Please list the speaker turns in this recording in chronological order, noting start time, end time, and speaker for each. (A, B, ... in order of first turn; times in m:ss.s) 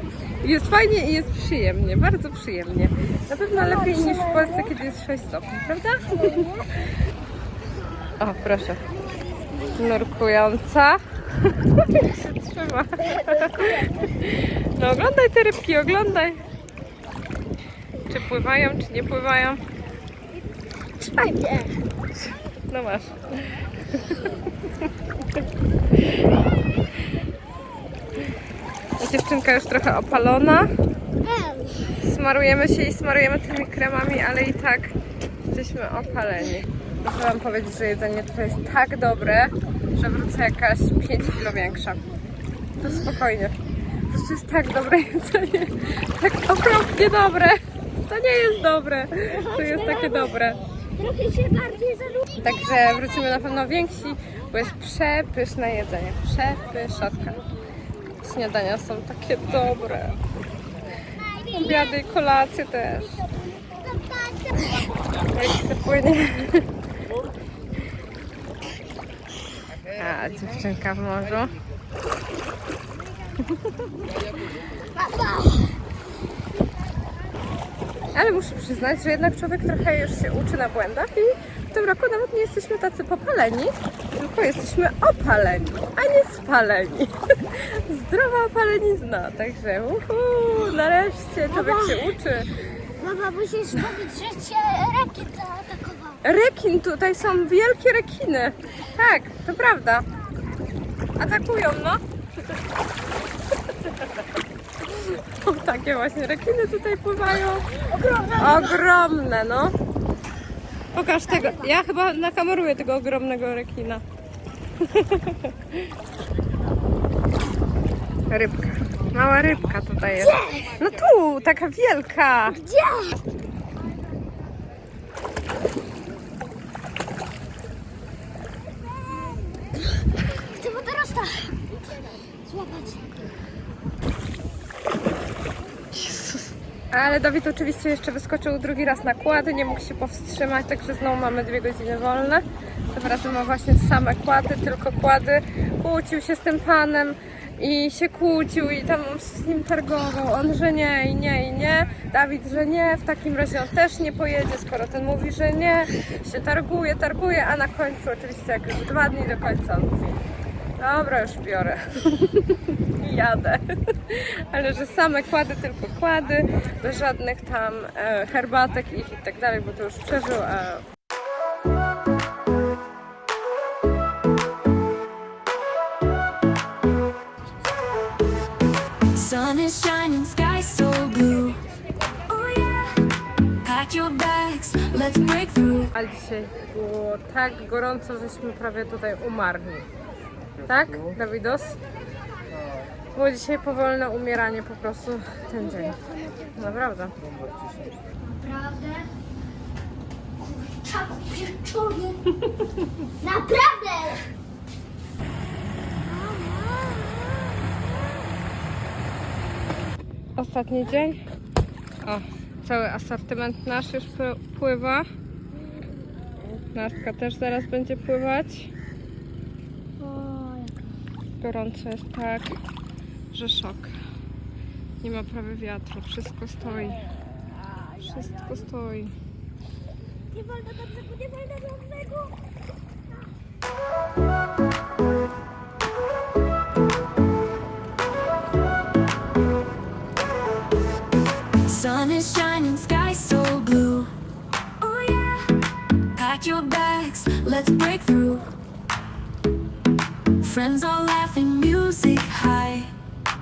0:00.4-0:06.4 A
0:03.5-0:04.7 B
0:06.1-0:06.7 B
0:08.2-0:08.8 A
0:09.6-0:16.4 A
0:13.1-0:14.0 B
0:18.1-0:19.6 A
0:21.0-0:21.8 B
0:22.7-0:24.3 A
0:29.0-0:30.7 A
0:31.2-0:32.0 B
0:32.0-0:42.0 A
0:42.8-0:43.5 A
0:44.1-0:50.6 A
0:49.2-0:50.3 B
0:51.0-0:53.1 B
0:52.4-0:57.4 A
0:58.2-1:00.2 A
1:01.5-1:03.2 A
1:03.6-1:04.8 B
1:05.3-1:06.6 A
1:09.9-1:11.5 A
1:13.4-1:13.7 A
1:14.9-1:15.8 B
1:18.1-1:32.5 A
1:31.5-1:32.1 B
1:33.0-1:36.2 B
1:36.2-1:40.0 A
1:41.2-1:42.0 A
1:44.8-1:47.6 A
1:47.8-1:48.8 B
1:48.4-1:49.7 A
1:50.9-1:54.0 A
1:51.3-1:51.6 B
1:54.8-1:55.9 A
1:58.3-2:02.6 A
2:00.2-2:00.8 B
2:02.6-2:03.2 B
2:10.4-2:11.6 B
2:12.4-2:13.3 B
2:15.9-2:40.2 A
2:40.8-2:50.8 A
2:59.1-3:01.6 C
3:02.4-3:02.7 C
3:03.6-3:05.9 C
3:05.9-3:09.9 A
3:10.6-3:11.8 A
3:13.1-3:16.0 A
3:16.6-3:17.1 A
3:18.2-3:19.1 B
3:20.4-3:22.2 B
3:22.4-3:22.9 A
3:23.2-3:24.3 B
3:26.1-3:27.7 B
3:30.4-3:31.2 A
3:32.0-3:35.0 A
3:36.6-3:38.7 A
3:40.0-3:40.9 B
3:41.4-3:42.6 A
3:43.3-3:43.9 A
3:45.0-3:47.0 A
3:48.0-3:49.1 A
3:50.4-3:52.3 B
4:01.6-4:04.1 C
4:04.8-4:05.2 C
4:06.2-4:08.5 C
4:10.4-4:12.9 C